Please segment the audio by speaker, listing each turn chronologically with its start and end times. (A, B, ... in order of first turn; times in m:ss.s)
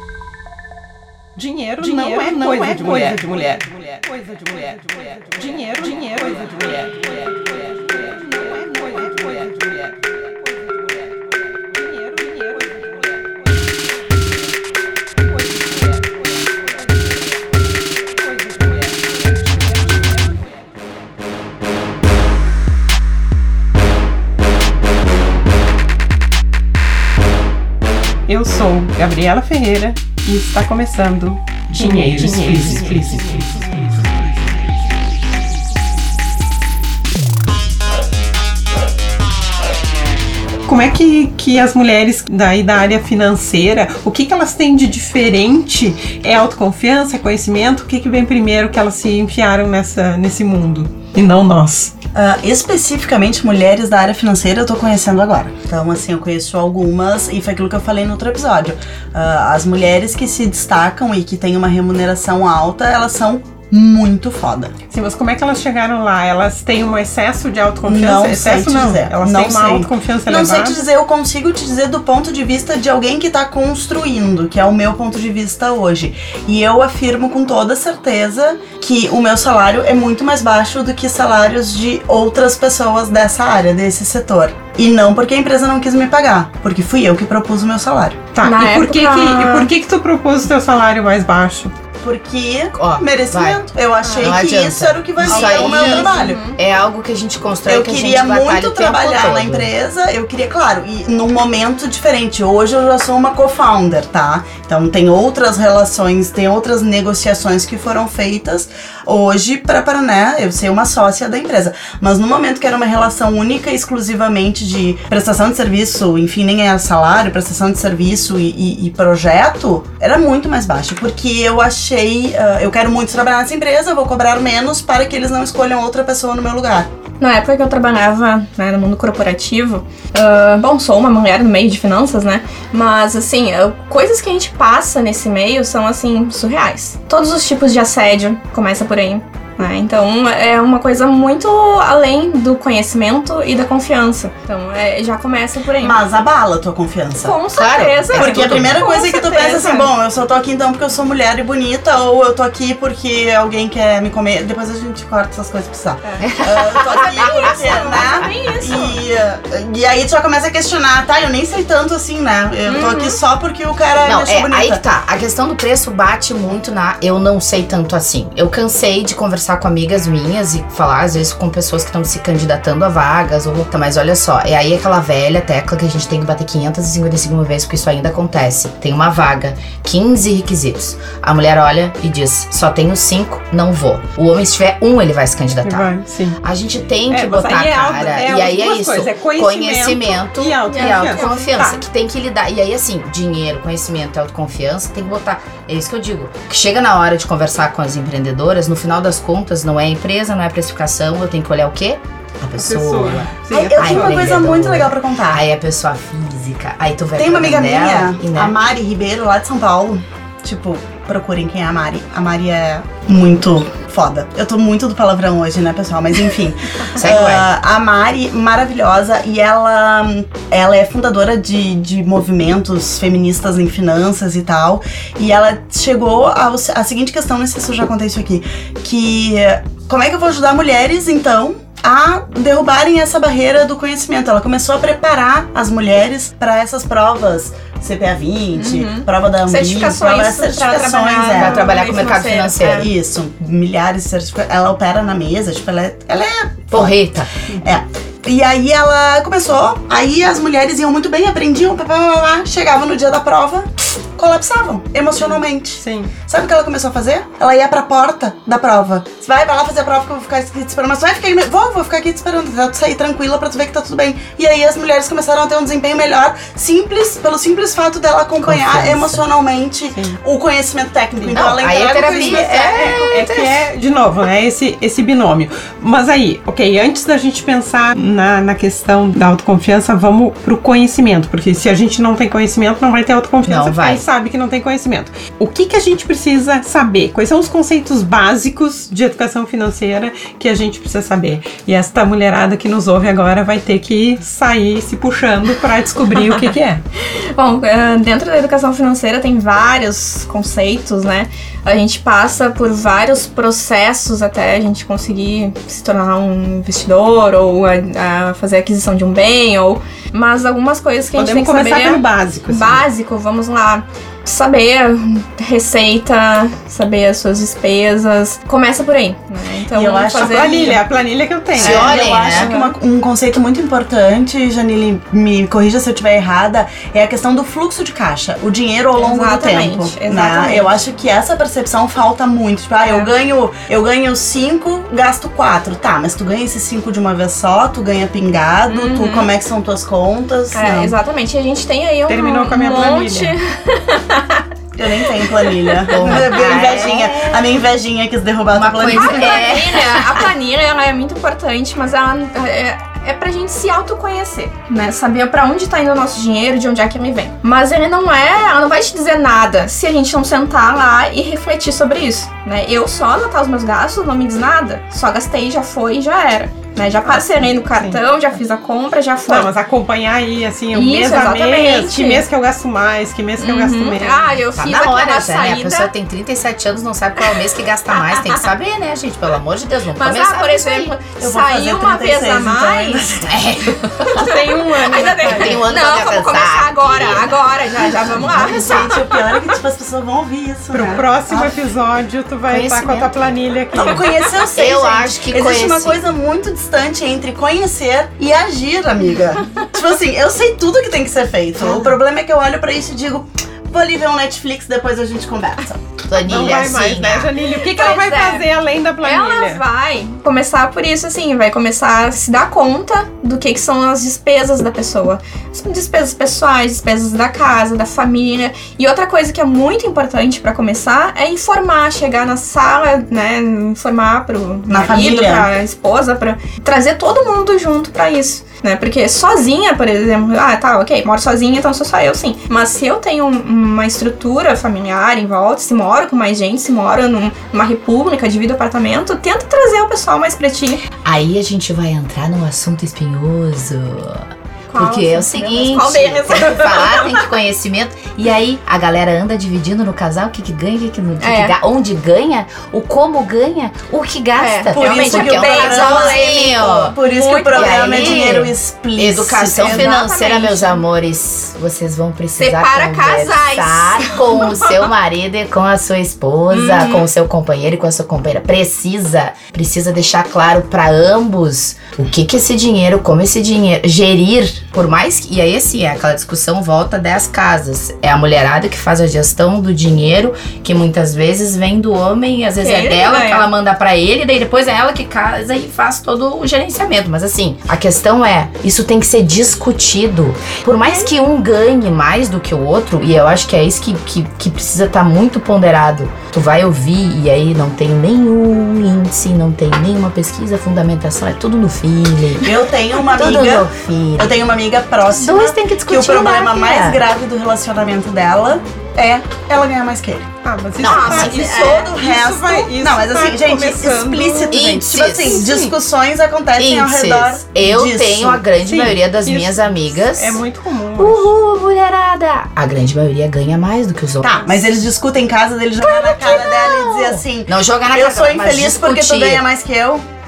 0:01.3-0:09.9 A
0:01.8-0:03.6 B
0:11.7-0:12.9 A
0:28.3-0:33.6 A
0:40.6-0:51.9 A
0:52.1-1:04.7 B
1:04.9-1:10.8 A
1:07.8-1:28.2 B
1:28.3-1:31.7 A
1:28.4-1:29.7 C
1:32.0-1:36.4 B
1:32.7-1:33.6 D
1:34.0-1:34.3 A
1:34.2-1:39.7 D
1:35.3-1:36.6 C
1:37.6-2:06.9 B
2:07.2-2:26.0 C
2:25.8-2:27.4 B
2:27.2-2:29.9 C
2:27.5-2:28.8 D
2:28.1-2:44.8 B
2:36.0-2:39.0 C
2:36.2-2:38.3 D
2:42.6-2:43.2 C
2:44.0-3:05.9 D
3:05.6-3:06.4 A
3:06.4-3:28.6 D
3:07.1-3:11.8 A
3:10.7-3:11.4 C
3:22.6-3:24.3 A
3:23.5-3:25.4 B
3:27.2-4:07.0 B
3:37.0-3:37.5 D
3:58.5-4:02.9 C
4:01.3-4:02.9 D
4:06.7-4:07.3 D
4:07.6-4:33.1 B
4:15.8-4:16.1 A
4:28.4-4:29.2 D
4:31.2-4:56.8 A
4:31.3-4:33.6 D
4:43.4-4:44.0 D
4:57.1-5:20.8 C
5:11.2-5:12.8 A
5:19.7-5:20.8 B
5:20.1-5:22.0 A
5:21.5-5:41.0 B
5:21.6-5:22.5 D
5:22.1-5:22.7 C
5:29.0-5:30.7 C
5:32.8-5:33.1 C
5:38.7-5:39.3 C
5:40.5-5:44.4 C
5:42.1-5:43.4 A
5:44.8-5:49.6 B
5:45.2-5:47.0 C
5:45.9-5:47.2 D
5:48.5-5:50.3 D
5:48.9-6:09.5 C
6:07.0-6:08.4 A
6:09.3-6:14.4 A
6:10.7-6:12.2 C
6:13.4-6:15.9 C
6:14.5-6:20.9 D
6:17.9-6:18.5 C
6:19.9-6:23.0 C
6:21.2-6:23.5 B
6:23.2-6:29.0 D
6:24.1-6:29.0 C
6:24.2-6:25.6 A
6:28.3-6:31.6 B
6:30.7-6:34.1 A
6:32.5-6:33.1 D
6:33.7-6:46.0 B
6:34.5-6:36.0 D
6:46.1-6:47.3 D
6:46.2-6:49.6 A
6:47.6-7:20.8 C
7:04.7-7:05.5 B
7:21.0-7:36.9 D
7:24.7-7:27.2 C
7:31.2-7:31.6 C
7:34.4-7:38.4 C
7:34.7-7:40.0 B
7:37.5-8:22.5 D
7:39.5-7:40.8 C
7:42.4-7:44.9 C
7:46.5-7:47.0 C
8:02.6-8:03.5 C
8:22.4-8:30.2 B
8:23.1-8:24.3 D
8:25.0-8:27.0 D
8:30.4-8:35.7 A
8:30.8-8:31.3 D
8:30.8-8:31.9 C
8:31.1-8:38.4 B
8:34.5-8:35.4 D
8:36.6-8:40.4 D
8:38.6-8:41.3 A
8:41.0-8:44.6 D
8:44.2-8:50.0 B
8:45.8-8:49.4 D